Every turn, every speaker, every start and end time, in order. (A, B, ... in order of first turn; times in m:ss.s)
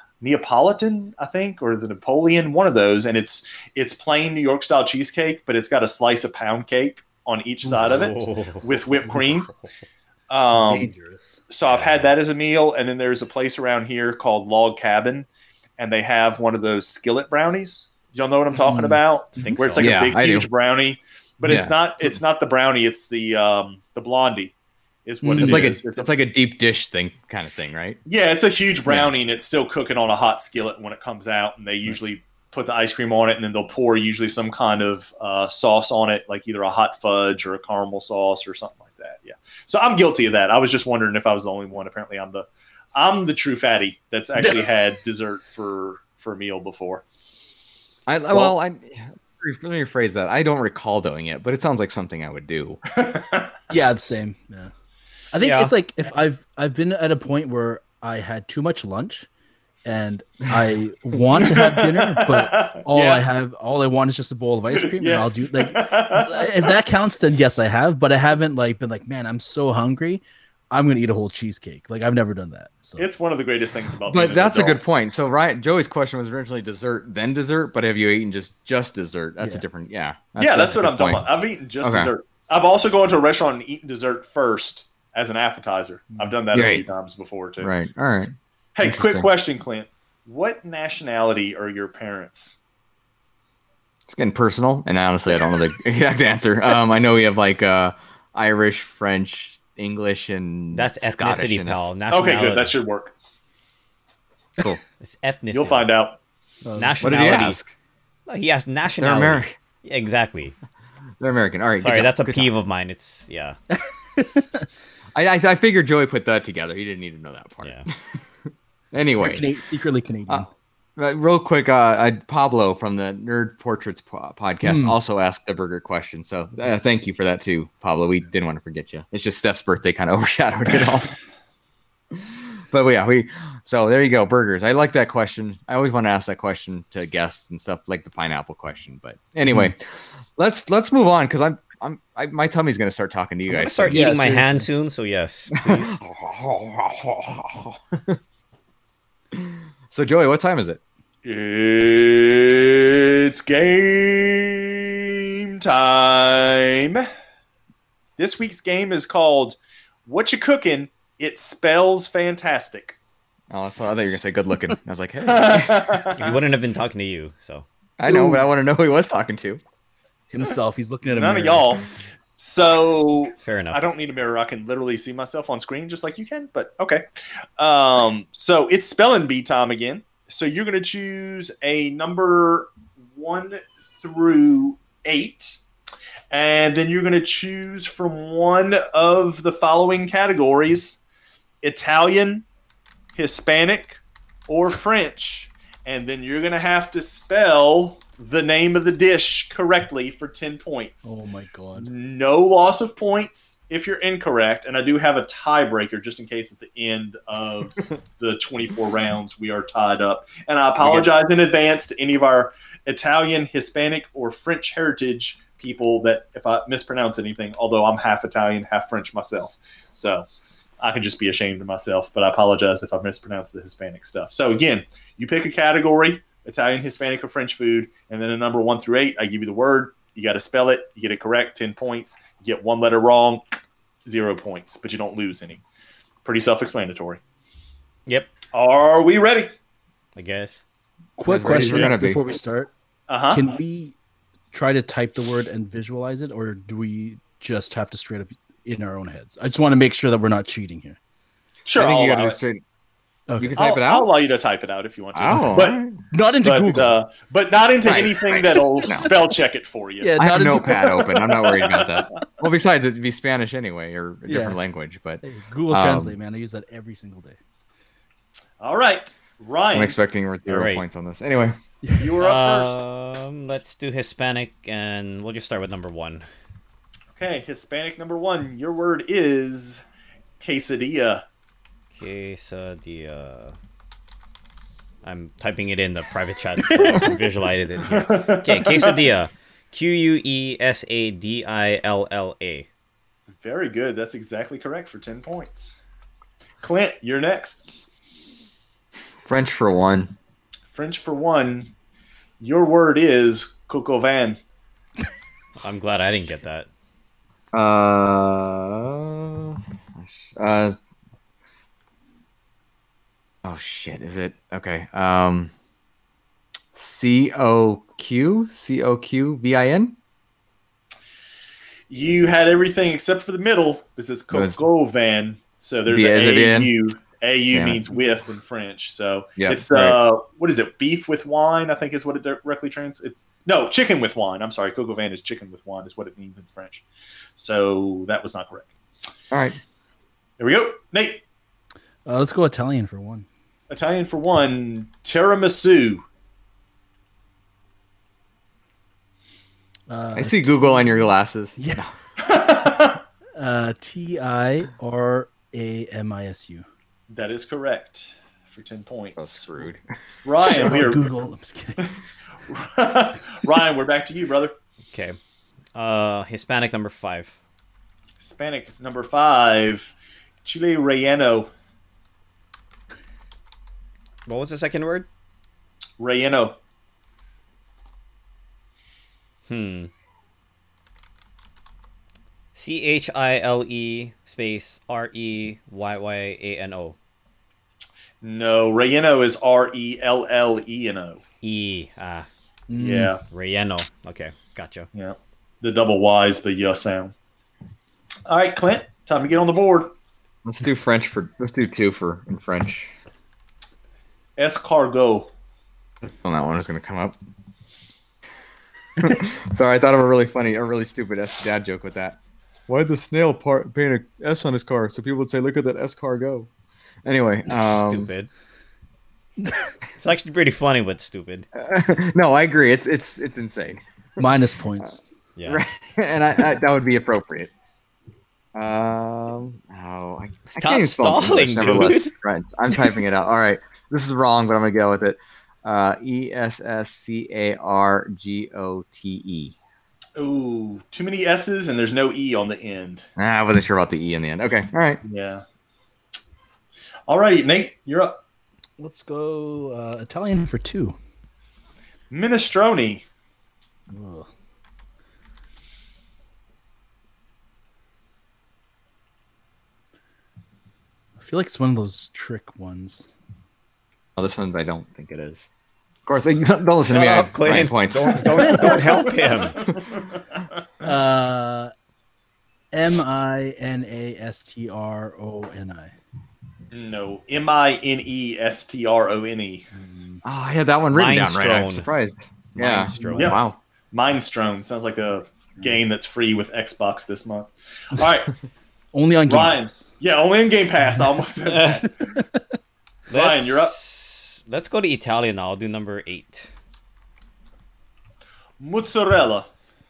0:00.2-0:09.5 A
0:07.8-0:08.7 B
0:09.1-0:09.4 C
0:10.3-0:10.9 A
0:10.6-0:11.4 C
0:11.5-0:15.3 A
0:11.7-0:12.1 B
0:15.8-0:24.5 A
0:18.5-0:19.8 C
0:19.4-0:19.9 B
0:19.8-0:20.5 D
0:21.4-0:21.8 D
0:25.0-0:26.1 A
0:25.2-0:25.7 C
0:25.4-0:28.0 D
0:28.1-0:47.0 A
0:48.1-0:52.8 D
0:52.9-0:53.5 A
0:53.7-0:54.7 C
0:55.3-0:59.3 C
0:55.4-0:55.7 B
0:59.8-1:13.1 C
1:01.4-1:03.2 A
1:04.8-1:06.8 A
1:13.0-1:14.8 A
1:14.1-1:21.2 D
1:19.4-1:19.6 C
1:20.4-1:27.7 A
1:21.8-1:22.1 D
1:26.5-1:26.9 D
1:27.6-1:29.3 D
1:28.8-1:32.6 A
1:34.1-1:41.9 D
1:40.7-1:42.8 B
1:42.1-1:43.1 A
1:45.0-1:45.9 B
1:45.5-1:46.2 A
1:46.6-1:47.0 C
1:46.8-1:47.6 B
1:47.0-1:47.7 D
1:48.3-1:50.6 B
1:49.0-1:49.6 D
1:51.2-1:52.5 D
1:51.8-1:53.6 B
1:53.7-1:54.7 C
1:55.2-1:59.5 D
1:57.6-1:57.9 B
1:59.2-2:00.5 C
2:00.3-2:11.2 D
2:04.6-2:05.0 C
2:12.1-2:24.1 D
2:19.5-2:19.7 C
2:23.5-2:26.0 B
2:23.9-2:24.7 C
2:25.6-2:28.2 D
2:29.3-2:30.8 D
2:31.2-2:37.1 A
2:38.2-2:43.0 A
2:43.5-2:46.1 D
2:45.2-2:46.4 A
2:46.1-2:47.7 B
2:48.0-2:49.6 D
2:48.0-2:48.5 C
2:50.3-2:51.8 C
2:51.1-2:57.1 A
2:53.4-2:53.8 B
2:57.6-3:05.6 A
3:06.3-3:11.0 A
3:11.6-3:12.4 A
3:13.2-3:21.2 A
3:21.0-3:21.9 C
3:21.8-3:40.3 A
3:30.8-3:31.1 D
3:40.8-3:53.4 A
3:54.0-3:55.6 A
3:56.2-3:57.2 A
3:58.1-3:58.3 B
3:58.5-3:59.5 A
4:00.2-4:00.6 B
4:01.2-4:02.7 C
4:01.3-4:02.2 D
4:01.6-4:01.8 A
4:03.1-4:03.5 A
4:03.3-4:04.0 C
4:04.5-4:11.0 C
4:11.7-4:12.4 A
4:11.8-4:12.6 D
4:13.3-4:13.6 C
4:13.4-4:14.1 D
4:13.6-4:15.8 A
4:15.2-4:16.0 D
4:16.1-4:17.0 C
4:16.4-4:22.0 A
4:17.8-4:19.2 D
4:18.8-4:19.1 C
4:20.0-4:21.1 C
4:20.2-4:26.2 D
4:24.3-4:24.6 C
4:25.2-4:27.4 C
4:28.6-4:30.0 A
4:29.7-4:31.6 D
4:30.5-4:30.8 B
4:31.8-4:32.1 C
4:32.0-4:32.8 A
4:32.2-4:36.3 B
4:37.2-4:39.8 A
4:40.4-4:41.2 A
4:41.9-4:43.6 B
4:45.0-4:52.7 B
4:46.7-4:47.1 C
4:47.9-4:49.0 A
4:53.4-4:55.8 A
4:56.6-4:57.6 A
4:59.3-5:00.1 D
5:00.7-5:01.7 A
5:02.4-5:04.4 A
5:05.6-5:06.7 B
5:07.5-5:10.8 D
5:13.4-5:15.5 D
5:16.7-5:20.0 D
5:21.9-5:36.8 A
5:24.3-5:24.6 D
5:25.9-5:26.7 D
5:27.5-5:27.8 D
5:29.4-5:30.0 D
5:37.4-5:38.7 A
5:39.3-5:39.6 D
5:40.4-5:41.2 A
5:42.1-5:43.3 C
5:43.7-5:46.0 A
5:49.9-5:51.9 C
5:50.2-5:51.9 D
5:52.2-5:53.0 A
5:53.4-5:56.7 C
5:57.1-5:59.5 A
5:59.2-5:59.8 D
6:00.2-6:01.1 A
6:00.5-6:01.9 C
6:02.5-6:04.5 A
6:04.9-6:05.2 B
6:05.8-6:07.4 B
6:08.2-6:09.9 A
6:10.4-6:11.5 A
6:14.3-6:15.1 B
6:16.0-6:16.6 A
6:19.5-6:19.9 B
6:22.5-6:27.0 B
6:28.2-6:31.2 A
6:31.4-6:32.3 B
6:32.7-6:33.2 C
6:32.8-6:33.2 A
6:33.3-6:34.9 B
6:34.9-6:37.1 A
6:38.3-6:39.9 A
6:40.4-6:42.9 D
6:44.4-6:45.3 A
6:46.2-6:47.2 D
6:49.0-6:56.5 D
6:57.0-6:58.1 D
6:57.6-6:58.3 B
7:00.0-7:01.5 B
7:01.6-7:04.3 D
7:04.2-7:05.0 C
7:05.4-7:05.6 B
7:05.5-7:07.5 D
7:08.6-7:19.6 D
7:10.6-7:12.1 B
7:20.2-7:23.0 A
7:23.2-7:25.0 D
7:25.0-7:25.4 A
7:27.1-7:28.2 A
7:28.8-7:31.0 C
7:32.1-7:33.0 A
7:33.9-7:34.3 C
7:41.2-7:43.1 C
7:44.2-7:45.4 D
7:46.1-7:49.1 D
7:46.9-7:49.6 B
7:50.8-7:51.7 C
7:52.7-7:55.9 C
7:56.7-7:59.7 A
7:59.7-8:00.2 C
8:00.2-8:03.6 D
8:00.9-8:01.9 B
8:02.6-8:03.4 B
8:03.9-8:08.3 A
8:08.9-8:09.9 C
8:09.3-8:12.2 A
8:11.5-8:11.8 B
8:12.1-8:12.6 C
8:13.1-8:16.5 B
8:13.1-8:13.8 A
8:18.6-8:19.5 A